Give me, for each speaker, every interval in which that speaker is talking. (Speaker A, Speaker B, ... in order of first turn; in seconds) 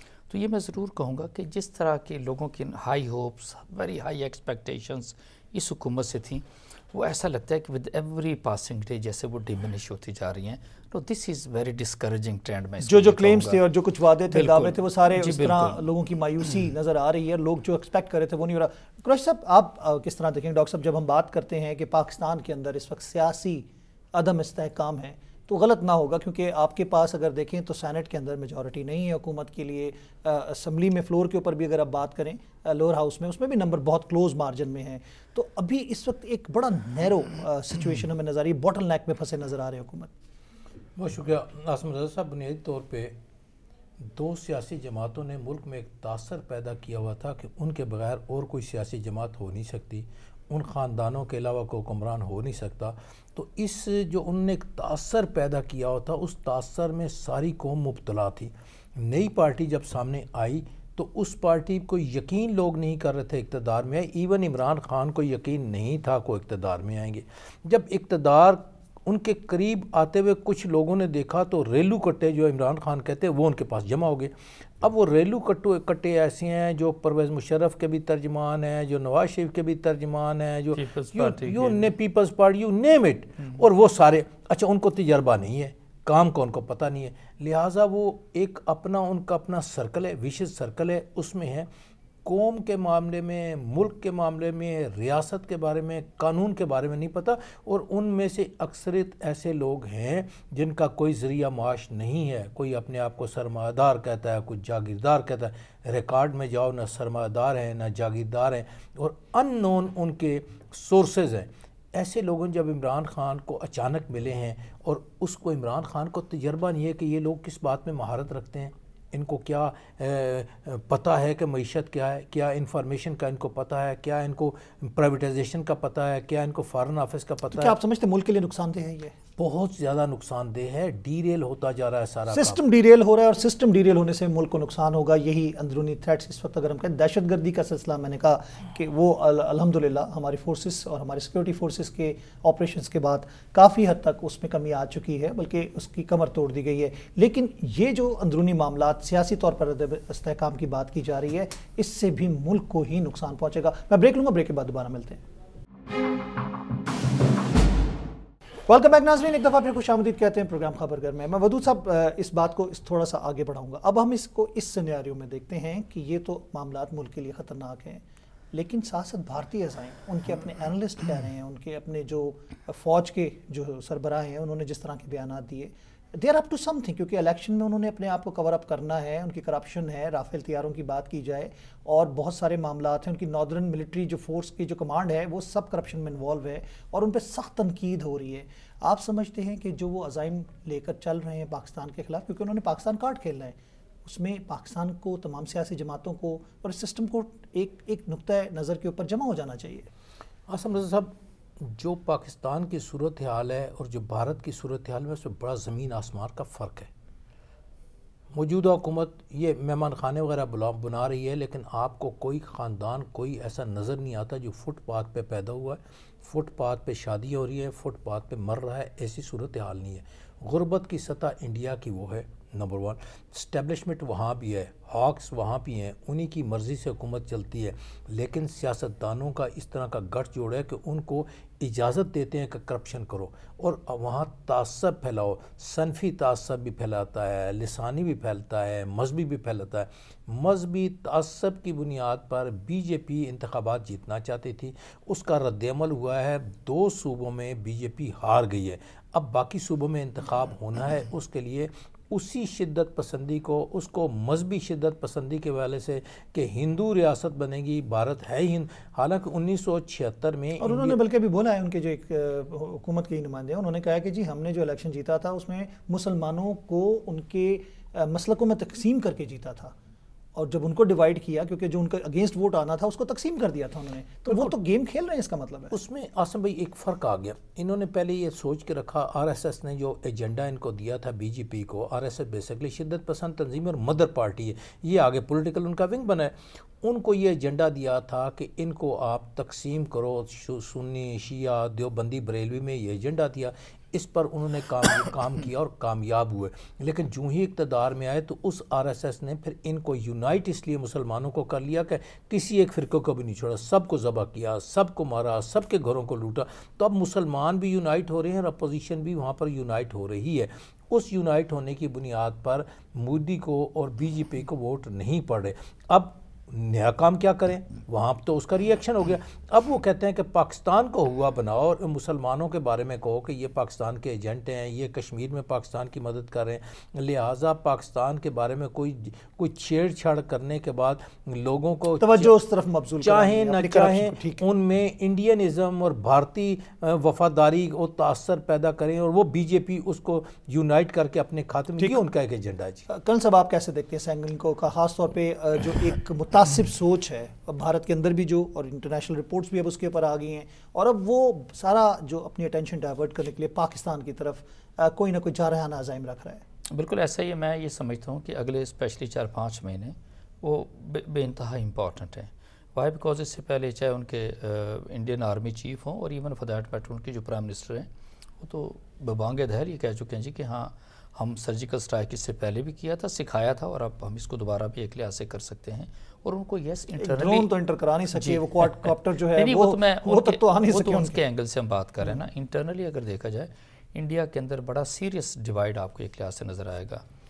Speaker A: 0.3-13.6, 14.3-15.8, 80.8-81.9, 356.7-367.9, 368.4-377.5, 378.1-387.0
Speaker B: 12.8-40.1, 127.5-129.2, 132.3-155.2, 158.7-168.0, 168.5-199.9, 260.6-269.7, 270.4-275.7, 332.0-334.4, 342.9-356.4, 376.9-381.2
Speaker C: 41.0-43.2, 44.0-91.7, 92.2-127.8, 129.4-132.6, 200.5-206.9, 208.3-261.0, 274.3-274.5, 275.7-332.4, 333.0-342.9